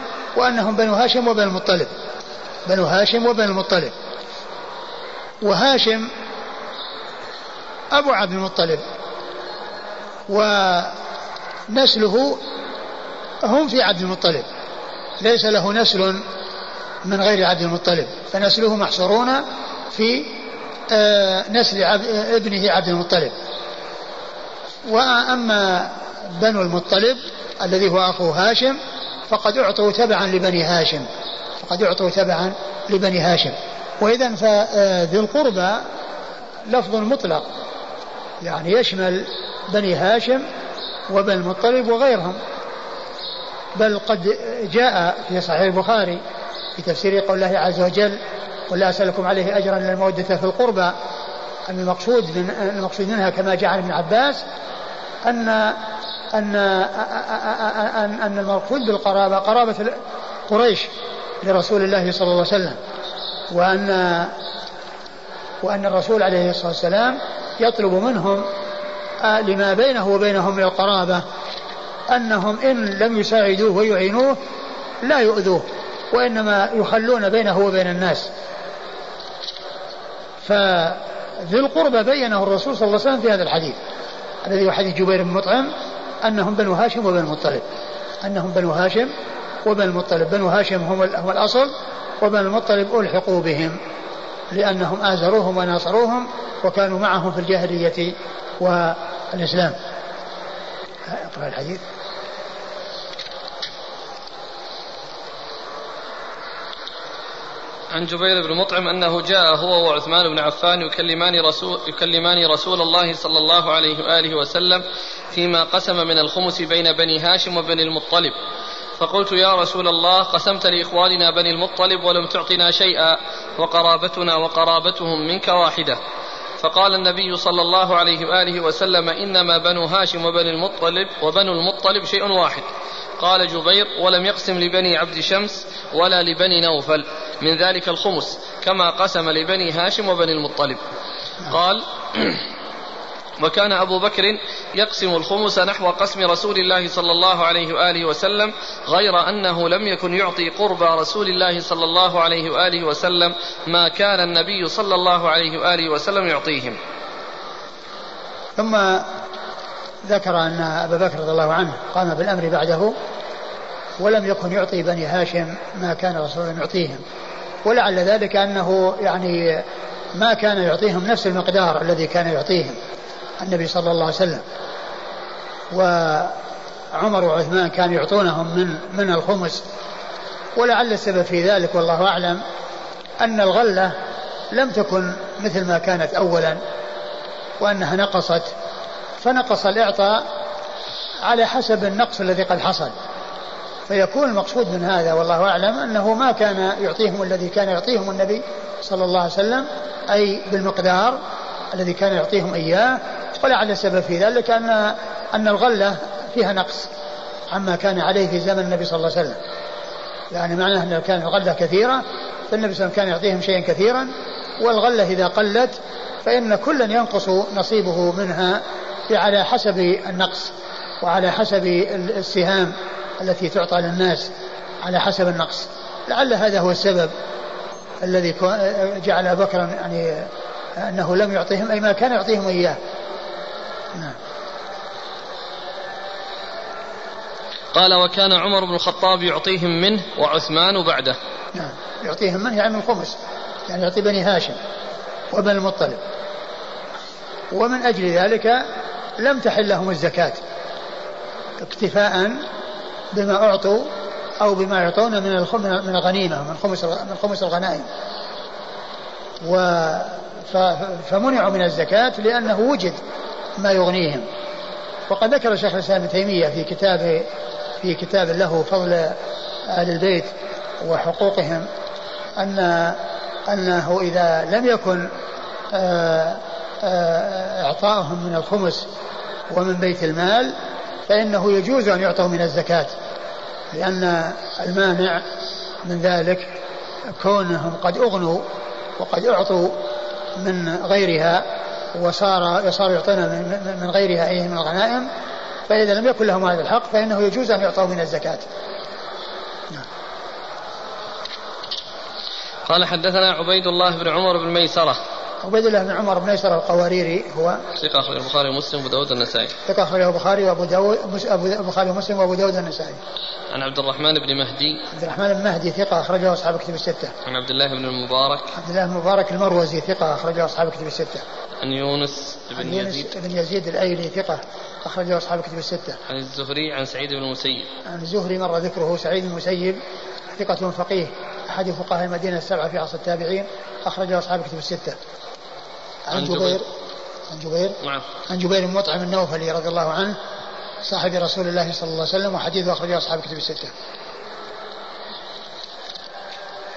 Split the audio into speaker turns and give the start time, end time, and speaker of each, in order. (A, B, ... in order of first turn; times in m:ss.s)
0:00.4-0:01.9 A
0:02.7-0:03.9 A
0:05.4-0:06.1 A
0:07.9-0:08.8 A
0:10.3-0:11.0 A
0:11.7-0:12.4 A
0:13.4-0:14.4 A
0:15.2-0:16.2 A
0:17.0-0:20.4 A
0:20.9-0:23.3 A
0:24.8-0:28.8 A
0:29.3-0:31.1 A
0:31.6-0:35.8 A
0:36.7-0:37.5 A
0:38.4-0:40.4 A
0:41.1-0:42.4 A
0:43.8-0:46.2 A
0:46.8-0:48.2 A
0:48.7-0:50.9 A
0:51.7-0:54.4 A
0:55.2-0:55.8 A
0:56.3-1:00.9 A
1:01.4-1:02.8 A
1:03.5-1:04.3 A
1:05.6-1:08.4 A
1:09.2-1:11.2 A
1:12.1-1:14.4 A
1:15.0-1:18.3 A
1:20.4-1:23.8 A
1:24.4-1:25.7 A
1:26.2-1:27.6 A
1:28.2-1:29.1 A
1:29.6-1:33.8 A
1:34.5-1:39.8 A
1:41.0-1:41.8 A
1:47.9-1:58.4 B
1:59.0-2:06.0 B
2:06.6-2:12.7 B
2:13.2-2:20.8 B
2:21.4-2:22.4 B
2:23.4-2:36.8 B
2:38.6-2:39.1 A
2:40.0-2:42.9 A
2:44.0-2:47.0 A
2:47.6-2:52.8 A
2:53.4-2:54.4 A
2:55.7-2:56.4 A
2:56.9-2:59.6 A
3:00.6-3:02.4 A
3:03.2-3:03.9 A
3:04.5-3:06.6 A
3:07.6-3:08.5 A
3:09.2-3:10.2 A
3:11.2-3:12.9 A
3:13.9-3:21.2 A
3:21.7-3:26.9 A
3:27.5-3:29.4 A
3:30.3-3:44.3 A
3:44.8-3:47.1 A
3:48.0-3:52.8 A
3:57.7-4:01.2 B
4:01.5-4:03.2 A
4:03.7-4:04.6 A
4:05.3-4:06.0 A
4:07.5-4:08.6 A
4:09.2-4:10.4 A
4:11.6-4:12.4 A
4:13.1-4:17.8 A
4:19.4-4:23.0 A
4:23.6-4:24.2 A
4:25.1-4:27.3 A
4:27.8-4:31.7 A
4:32.4-4:35.1 A
4:35.7-4:38.9 A
4:39.5-4:40.5 A
4:41.1-4:42.9 A
4:43.7-4:45.3 A
4:45.8-4:46.5 A
4:47.2-4:48.4 A
4:49.0-4:49.8 A
4:50.4-4:55.1 A
4:55.7-4:58.5 A
5:02.7-5:05.0 B
5:05.4-5:07.6 A
5:07.7-5:09.6 B
5:09.7-5:13.0 A
5:13.5-5:14.8 B
5:14.9-5:17.1 A
5:17.2-5:18.6 B
5:18.5-5:21.2 A
5:21.6-5:23.1 B
5:22.6-5:26.0 A
5:26.1-5:27.7 B
5:27.8-5:29.8 A
5:30.4-5:35.0 A
5:36.1-5:36.6 A
5:36.1-5:36.6 B
5:37.3-5:40.2 A
5:37.8-5:38.1 B
5:40.8-5:43.7 A